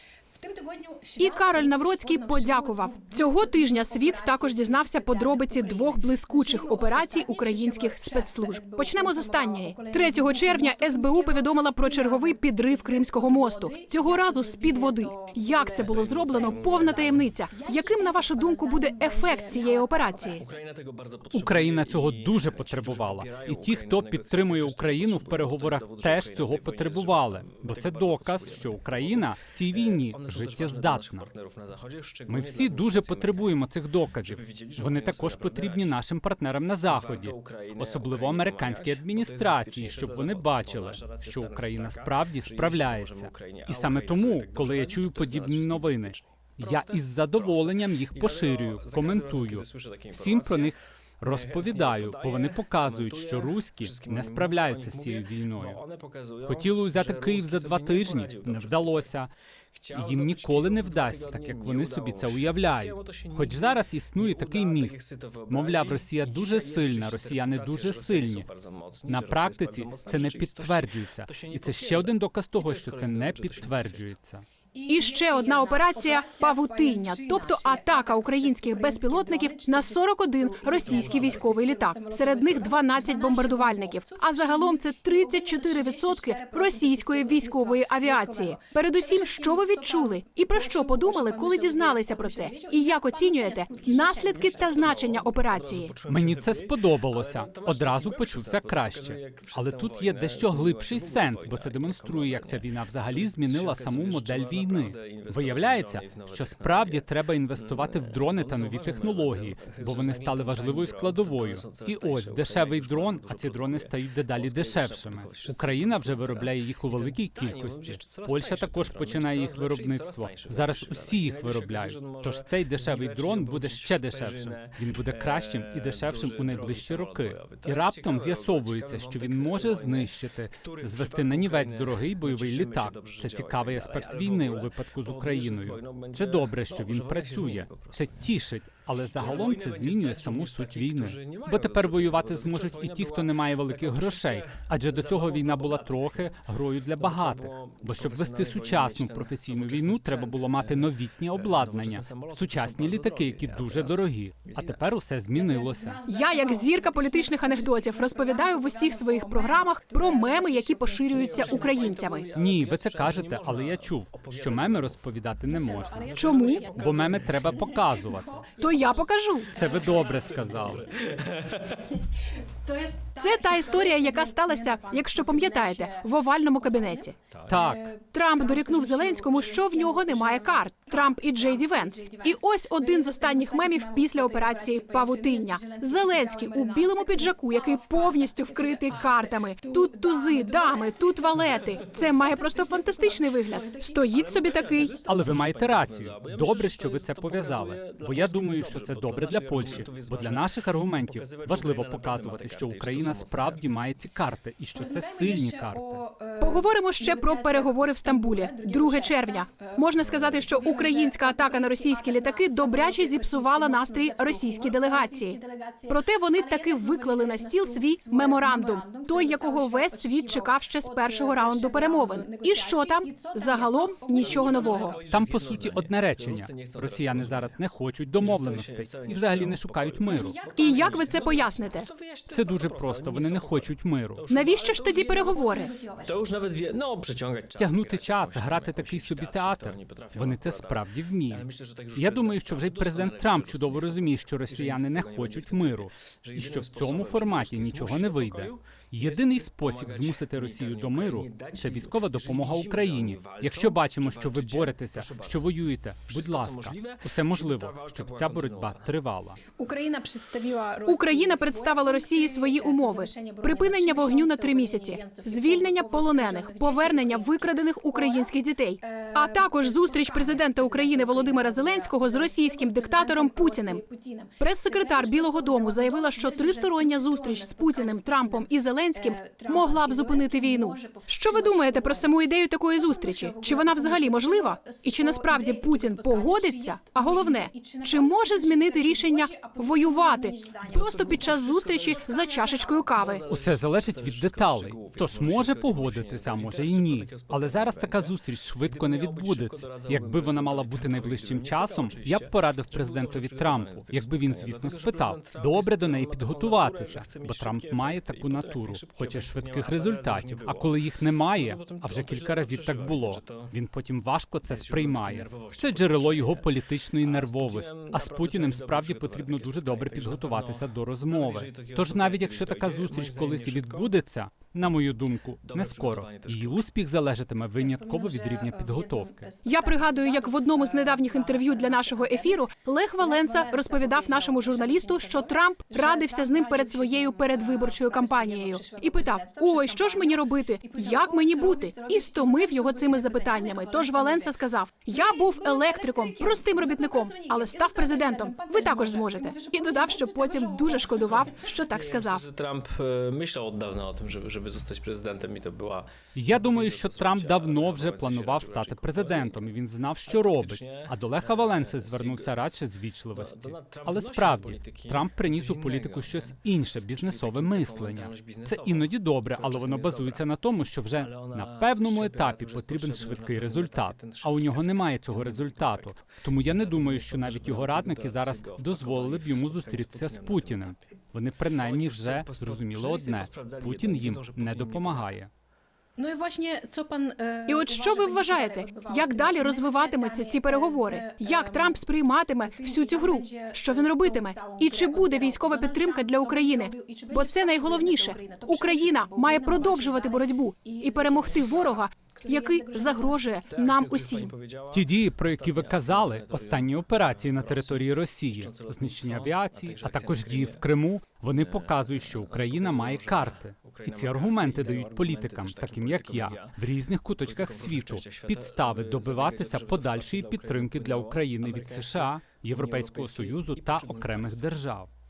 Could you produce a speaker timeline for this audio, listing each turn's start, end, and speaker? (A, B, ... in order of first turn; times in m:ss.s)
0:00.4-0:20.4 A
0:01.2-0:20.4 B
0:15.7-0:17.3 C
0:20.4-0:36.0 C
0:21.3-0:31.3 D
0:32.3-0:55.8 D
0:36.9-0:59.1 C
0:56.4-0:59.3 D
0:59.8-1:14.1 C
0:59.9-1:05.0 D
1:05.5-1:08.5 D
1:09.0-1:14.4 D
1:14.7-1:35.2 A
1:14.9-1:35.9 B
1:20.8-1:21.6 C
1:34.1-2:18.1 C
1:36.1-2:36.0 D
2:19.1-2:26.4 C
2:27.0-2:34.8 C
2:35.3-2:42.2 A
2:36.1-2:42.3 B
2:41.1-2:45.0 C
2:42.3-2:48.4 D
2:45.5-2:51.0 A
2:46.0-2:47.8 C
2:46.1-2:46.7 B
2:48.6-2:49.7 B
2:49.5-2:50.9 D
2:49.6-2:51.9 C
2:51.8-3:14.7 A
2:53.2-2:57.2 B
2:57.3-2:57.7 C
2:57.5-2:57.9 D
2:57.9-3:15.0 B
3:14.1-3:23.8 C
3:15.0-3:26.0 D
3:24.7-3:45.0 A
3:26.4-3:45.0 B
3:44.2-3:47.6 C
3:45.0-3:50.4 D
3:48.2-3:55.2 C
3:50.1-3:51.6 A
3:50.6-3:51.9 B
3:52.3-3:54.2 D
3:54.3-3:55.7 B
3:54.4-3:56.2 A
3:56.0-4:19.0 C
3:57.6-4:19.4 D
4:19.6-4:42.2 A
4:20.9-4:33.8 B
4:34.4-4:53.2 B
4:42.8-4:53.2 A
4:50.8-4:52.1 C
4:52.9-5:13.5 C
4:53.3-5:29.3 D
5:14.5-5:24.0 C
5:25.4-5:26.7 C
5:27.6-5:32.5 A
5:29.4-5:52.2 B
5:33.0-5:44.4 A
5:44.9-5:51.5 A
5:51.6-5:59.5 C
5:56.2-6:25.3 D
6:00.1-6:06.4 C
6:06.9-6:10.3 C
6:11.0-6:20.8 C
6:21.6-6:25.2 C
6:26.0-6:31.8 A
6:27.5-6:44.3 B
6:32.4-6:43.3 A
6:43.5-6:50.7 C
6:44.7-7:04.9 D
6:51.4-6:56.6 C
6:57.2-7:04.5 C